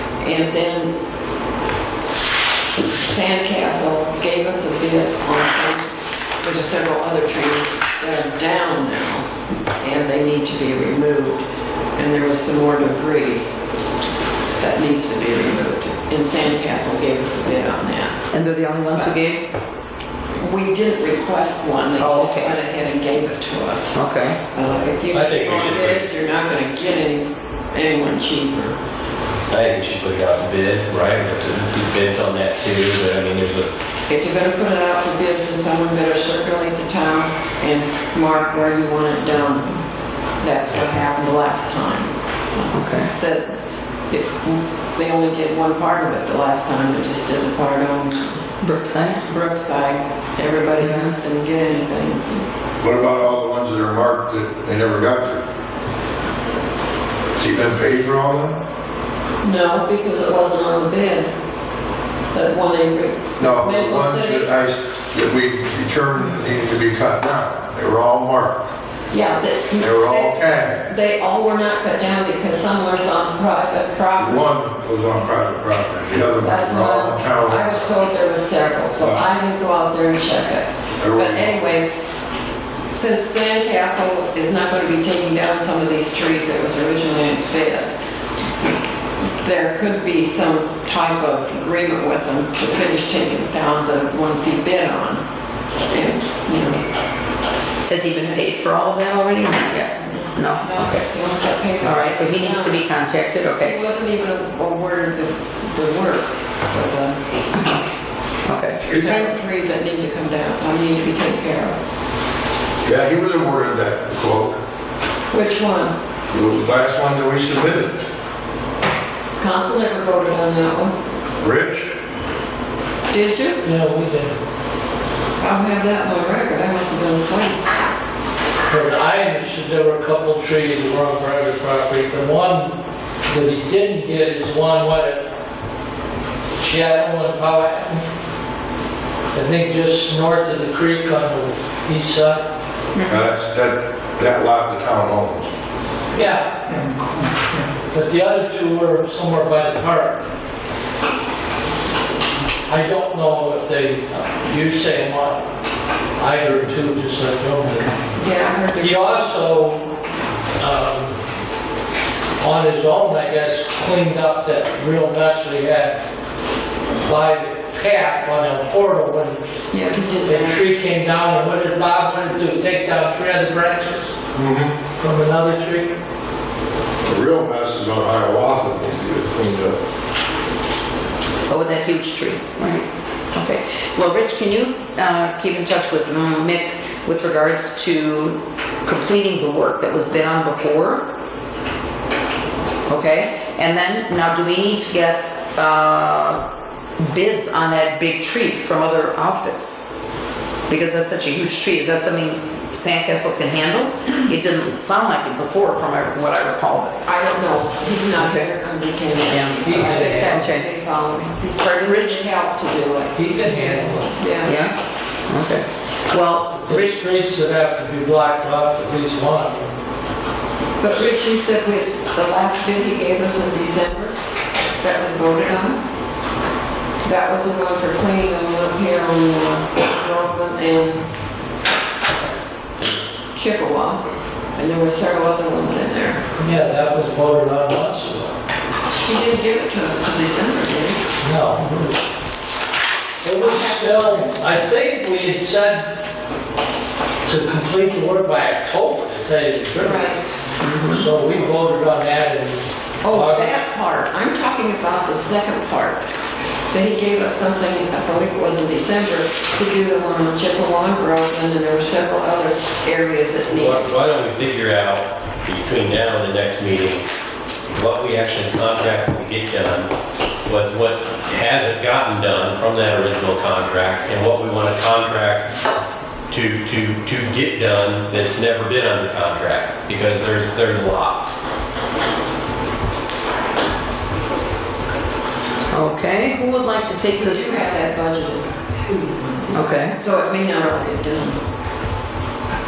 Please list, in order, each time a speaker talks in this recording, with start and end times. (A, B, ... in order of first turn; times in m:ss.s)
0:00.2-0:00.9 A
0:02.9-0:05.9 A
0:06.4-0:09.3 A
0:09.8-0:11.4 A
0:12.0-0:13.5 A
0:14.6-0:18.2 A
0:18.3-0:19.4 B
0:20.3-0:24.0 A
0:22.0-0:22.6 B
0:24.0-0:24.4 B
0:24.5-0:28.8 A
0:25.1-0:26.0 C
0:29.5-0:33.7 C
0:34.1-0:39.7 A
0:40.4-0:43.5 A
0:42.7-0:43.1 B
0:44.1-0:48.5 A
0:48.6-0:49.2 B
0:49.2-0:52.5 A
0:50.8-0:51.1 B
0:52.8-0:55.4 D
0:57.4-0:58.6 D
0:59.4-1:01.3 A
1:02.3-1:04.5 A
1:03.4-1:08.6 D
1:09.1-1:14.5 A
1:09.8-1:10.8 D
1:14.2-1:17.8 D
1:16.4-1:21.9 A
1:19.0-1:19.2 D
1:21.0-1:21.6 D
1:22.9-1:27.9 A
1:29.4-1:35.2 A
1:35.9-1:36.8 A
1:37.9-1:41.0 B
1:40.1-1:42.8 A
1:41.8-1:43.8 B
1:43.6-1:47.2 A
1:47.5-1:47.9 B
1:48.5-1:48.8 B
1:48.8-1:51.8 A
1:48.9-1:49.2 D
1:52.8-1:54.6 D
1:55.3-1:56.0 A
1:56.3-1:58.0 D
1:59.4-2:01.0 A
2:01.4-2:01.9 D
2:03.1-2:03.6 A
2:03.6-2:04.4 E
2:05.4-2:07.7 A
2:08.7-2:12.7 E
2:13.3-2:15.2 E
2:16.6-2:18.0 E
2:19.3-2:22.5 E
2:23.1-2:25.5 D
2:26.1-2:26.5 E
2:27.9-2:30.2 E
2:32.7-2:35.4 E
2:36.2-2:38.0 E
2:38.2-2:39.3 A
2:38.8-2:39.9 E
2:40.6-2:41.2 E
2:42.4-2:46.0 E
2:47.0-2:49.4 E
2:49.7-2:50.6 A
2:50.2-2:54.1 E
2:54.3-2:54.8 D
2:55.0-2:55.9 E
2:57.0-2:59.8 D
3:01.5-3:11.0 B
3:12.9-3:16.4 B
3:17.0-3:19.8 B
3:20.7-3:27.0 B
3:27.0-3:34.6 A
3:29.3-3:30.7 B
3:29.6-3:30.4 E
3:31.6-3:32.2 B
3:33.2-3:34.1 E
3:34.4-3:34.7 B
3:35.3-3:36.9 B
3:36.5-3:39.7 E
3:40.8-3:44.2 A
3:44.8-3:45.8 A
3:47.0-3:51.0 A
3:53.3-3:54.0 A
3:54.6-3:56.2 A
3:56.4-3:58.3 E
3:59.0-4:01.0 A
4:01.2-4:02.0 E
4:03.2-4:06.0 E
4:03.4-4:04.4 A
4:07.2-4:10.1 E
4:09.8-4:10.2 A
4:10.6-4:11.1 B
4:10.9-4:13.6 E
4:13.0-4:16.0 A
4:16.7-4:23.8 A
4:23.5-4:27.0 C
4:27.7-4:29.9 C
4:30.4-4:35.5 C
4:36.3-4:41.3 C
4:45.7-4:47.6 B
4:47.2-4:51.4 A
4:49.5-4:50.0 B